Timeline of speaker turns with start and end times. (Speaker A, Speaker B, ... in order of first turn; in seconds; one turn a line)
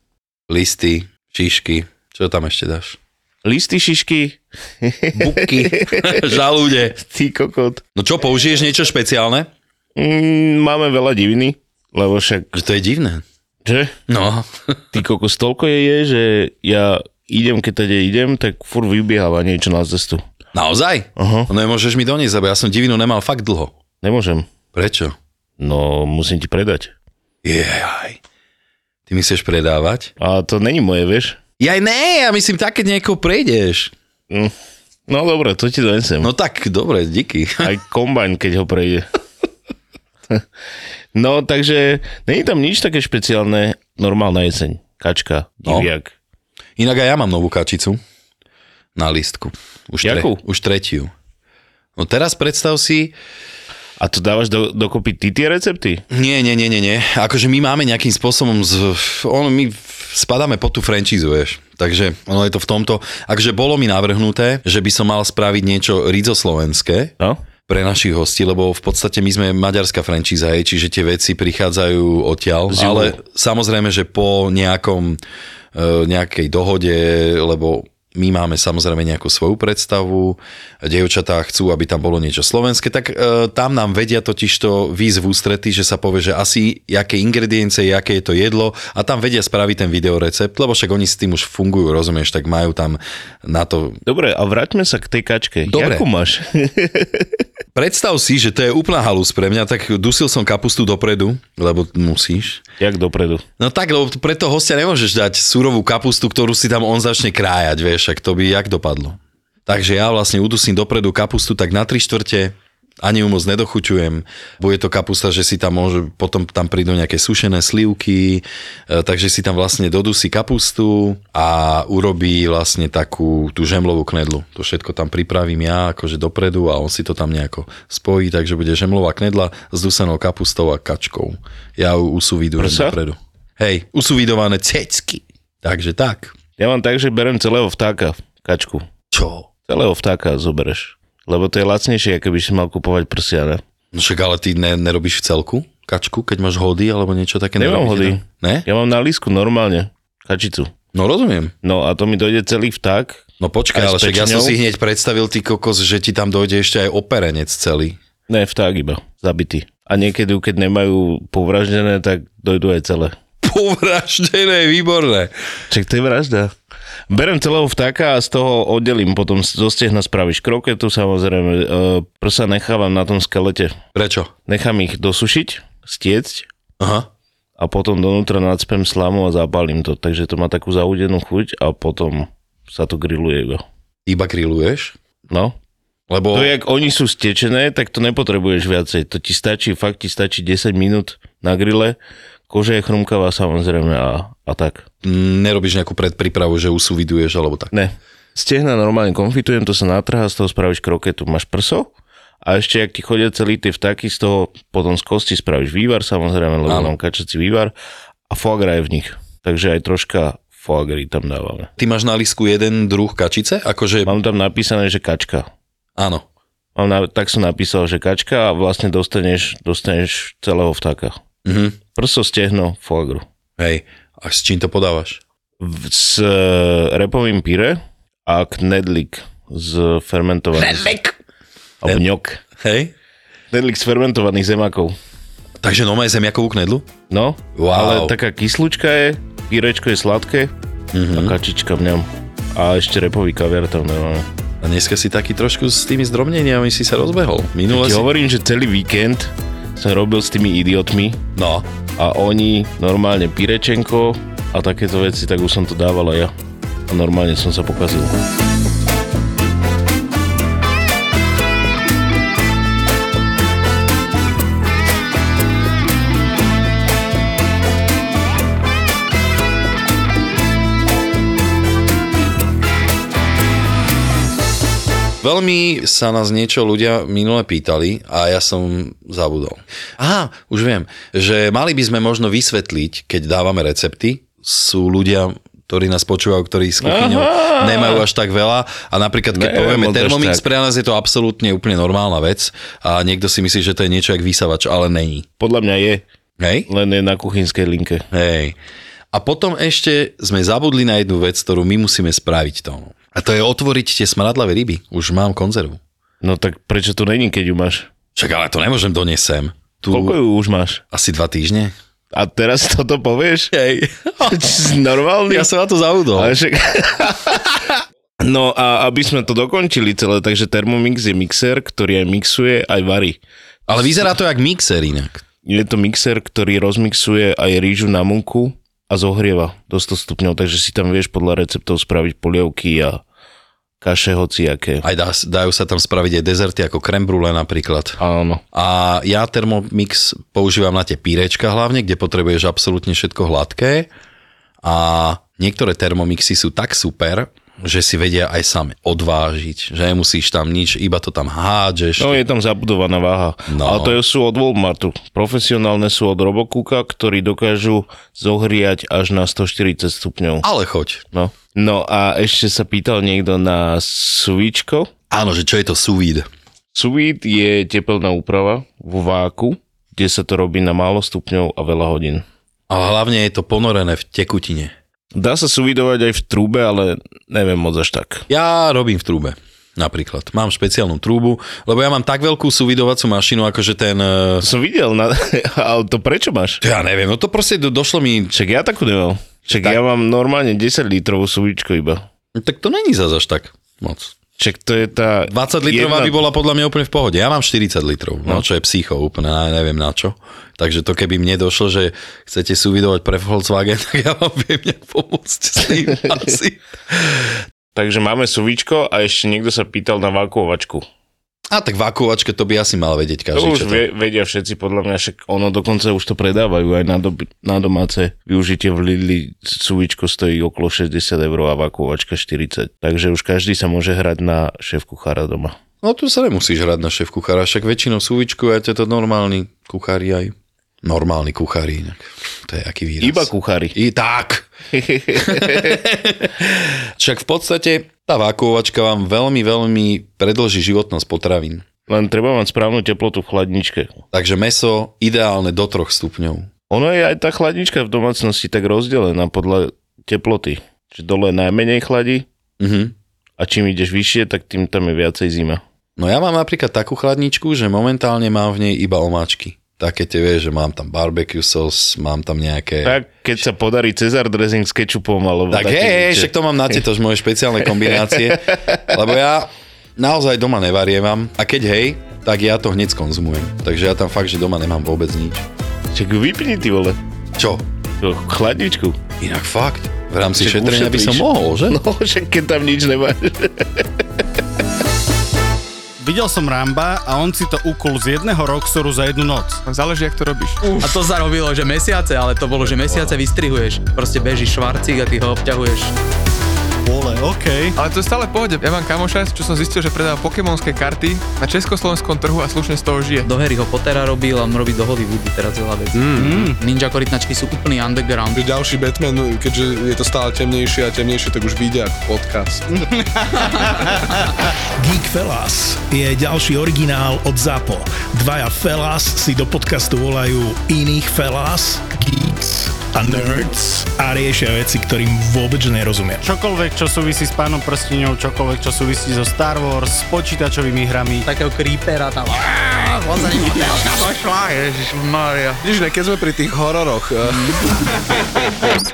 Speaker A: 0.5-3.0
Speaker B: 3.4-6.4
Speaker A: 5.1-7.0
Speaker B: 7.0-7.8
Speaker A: 8.0-9.5
Speaker B: 10.0-12.5
Speaker A: 12.5-13.2
Speaker B: 13.6-13.9
Speaker A: 14.1-14.8
Speaker B: 14.9-20.2
Speaker A: 20.5-23.7
Speaker B: 21.2-21.5
Speaker B: 24.0-24.4
Speaker A: 24.7-25.1
Speaker B: 25.6-26.9
Speaker A: 27.4-28.2
Speaker A: 29.1-30.1
Speaker B: 30.2-31.4
Speaker A: 31.6-33.9
Speaker B: 35.1-36.3
Speaker A: 36.2-37.7
Speaker B: 37.6-39.0
Speaker B: 41.1-46.1
Speaker A: 46.8-48.0
Speaker A: 49.0-51.1
Speaker B: 50.0-50.4
Speaker A: 52.0-53.1
Speaker B: 54.0-56.0
Speaker A: 56.1-67.1
Speaker A: 67.7-75.2
Speaker B: 72.7-73.2
Speaker A: 75.7-94.0
Speaker B: 94.0-97.3
Speaker A: 95.7-96.0
Speaker A: 97.7-102.6
Speaker B: 102.8-103.4
Speaker A: 103.6-136.3
Speaker B: 132.6-133.0
Speaker B: 136.6-138.8
Speaker A: 139.1-139.5
Speaker B: 139.7-143.6
Speaker A: 143.9-148.7
Speaker B: 147.6-150.7
Speaker A: 150.9-151.5
Speaker B: 151.6-154.6
Speaker A: 153.4-158.0
Speaker B: 158.3-163.1
Speaker A: 163.4-165.3
Speaker B: 165.7-166.5
Speaker B: 167.1-173.7
Speaker A: 173.9-174.3
Speaker B: 174.5-176.5
Speaker A: 176.8-177.1
Speaker B: 177.6-183.6
Speaker A: 184.1-184.9
Speaker B: 185.3-185.5
Speaker A: 186.1-186.5
Speaker B: 186.3-191.9
Speaker B: 192.5-194.9
Speaker A: 195.0-197.7
Speaker B: 197.7-201.9
Speaker B: 202.4-207.7
Speaker A: 206.7-206.9
Speaker B: 208.3-211.7
Speaker A: 211.8-214.1
Speaker B: 214.0-215.5
Speaker A: 216.0-216.2
Speaker B: 216.8-221.1
Speaker A: 221.4-221.8
Speaker B: 221.9-223.2
Speaker A: 223.6-225.2
Speaker B: 225.6-231.1
Speaker A: 230.7-230.9
Speaker B: 231.8-232.4
Speaker A: 232.6-232.9
Speaker B: 233.5-234.9
Speaker A: 235.6-236.9
Speaker B: 237.1-240.5
Speaker A: 237.6-238.1
Speaker A: 240.9-241.3
Speaker B: 241.1-244.3
Speaker A: 244.6-248.1
Speaker B: 247.7-251.2
Speaker A: 251.3-251.7
Speaker B: 252.0-256.3
Speaker B: 256.9-258.1
Speaker A: 275.2-295.3
Speaker B: 286.8-288.0
Speaker B: 289.3-290.4
Speaker B: 295.4-296.0
Speaker A: 296.4-296.7
Speaker B: 296.7-298.1
Speaker A: 298.1-298.6
Speaker A: 299.1-305.8
Speaker B: 306.2-307.9
Speaker A: 308.1-310.2
Speaker B: 309.9-310.8
Speaker A: 310.9-311.7
Speaker B: 312.1-313.5
Speaker A: 313.5-314.6
Speaker B: 314.2-315.5
Speaker A: 315.3-316.4
Speaker B: 316.1-323.2
Speaker A: 323.7-325.2
Speaker B: 325.4-333.0
Speaker B: 333.8-334.8
Speaker A: 334.8-338.0
Speaker B: 338.0-338.4
Speaker A: 338.5-343.9
Speaker A: 344.6-352.2
Speaker B: 352.0-360.5
Speaker A: 353.5-354.0
Speaker A: 360.4-361.0
Speaker B: 361.1-364.9
Speaker A: 365.1-366.3
Speaker B: 366.7-372.2
Speaker A: 372.7-374.7
Speaker B: 375.1-378.2
Speaker A: 378.3-384.5
Speaker B: 384.4-386.6
Speaker A: 386.6-388.3
Speaker B: 388.3-392.0
Speaker A: 389.5-389.8
Speaker A: 392.4-394.1
Speaker B: 394.4-396.2
Speaker A: 395.3-407.4
Speaker B: 407.7-410.8
Speaker A: 411.5-413.8
Speaker B: 413.3-425.6
Speaker A: 425.8-434.5
Speaker B: 433.0-433.8
Speaker B: 434.7-435.7
Speaker A: 435.1-441.6
Speaker B: 441.9-444.0
Speaker A: 444.1-446.5
Speaker B: 446.7-452.2
Speaker A: 452.6-452.9
Speaker B: 453.4-455.6
Speaker A: 456.0-463.0
Speaker B: 462.8-466.3
Speaker A: 465.5-475.4
Speaker B: 467.9-468.8
Speaker B: 475.9-477.0
Speaker A: 477.4-477.6
Speaker B: 478.0-479.0
Speaker A: 479.2-481.8
Speaker B: 480.4-483.9
Speaker C: 486.0-489.6
Speaker D: 489.6-490.6
Speaker E: 490.8-495.9
Speaker C: 496.8-497.8
Speaker D: 497.8-503.3
Speaker E: 503.2-508.4
Speaker F: 505.9-506.5
Speaker C: 506.2-506.5
Speaker F: 508.3-512.8
Speaker G: 514.8-526.2
Speaker C: 526.2-531.3
Speaker E: 531.3-535.6
Speaker F: 535.6-537.8